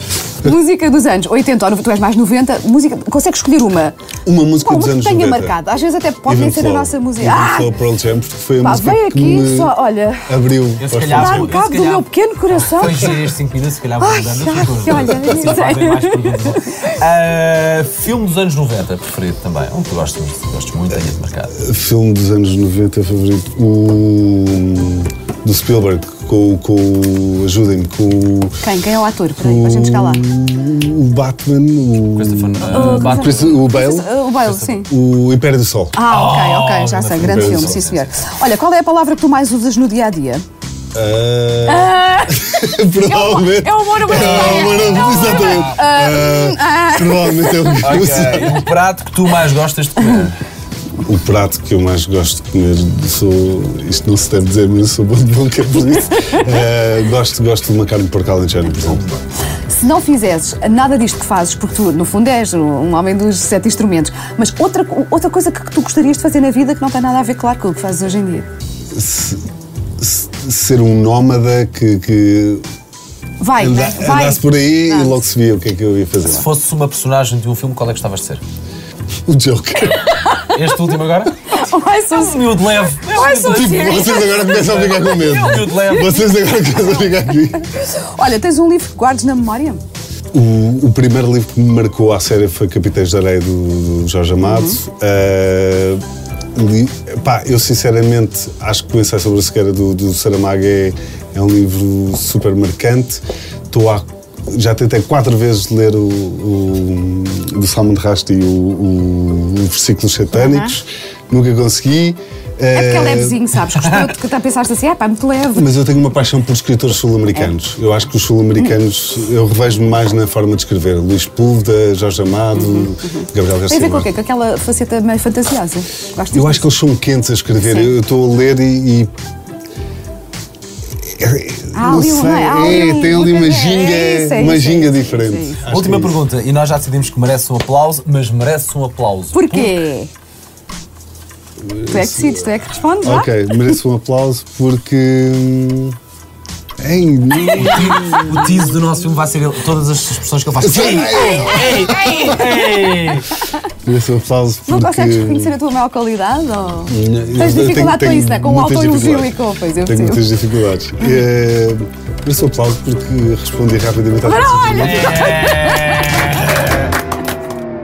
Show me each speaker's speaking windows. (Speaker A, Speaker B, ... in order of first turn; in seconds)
Speaker A: 0.4-4.0, 4.6-7.7, 8.6-10.3, 11.1-13.2, 14.0-16.6, 28.6-30.2, 32.6-34.9, 35.9-40.4, 41.7-42.4, 43.0-47.9, 59.7-68.5, 73.4-75.2, 80.1-80.5, 81.5-84.6, 85.5-85.8, 87.8-89.8, 94.4-94.8, 112.7-115.7, 122.5-126.6, 127.6-127.9, 131.7-135.6, 139.3-140.1, 141.9-143.7, 154.7-160.2, 164.2-166.2
Speaker B: 4.2-5.6, 6.2-11.6, 21.5-28.6, 29.4-36.0, 37.2-37.8, 40.9-48.6, 51.0-59.0, 68.9-69.4, 70.0-72.6, 73.5-76.5, 79.2-80.1, 83.4-87.7, 90.3-96.0, 96.5-113.4, 115.5-124.1, 126.3-129.1, 131.1-136.2, 141.6-142.5, 143.0-145.9, 146.8-148.5, 150.6-152.5, 153.8-155.5, 156.9-165.3
Speaker C: 10.8-21.5, 32.1-33.8, 36.0-38.3, 44.3-45.8, 47.8-50.4, 58.7-59.2, 76.2-78.4, 80.5-81.3, 82.1-86.3, 135.7-139.7, 147.4-153.3, 164.8-166.4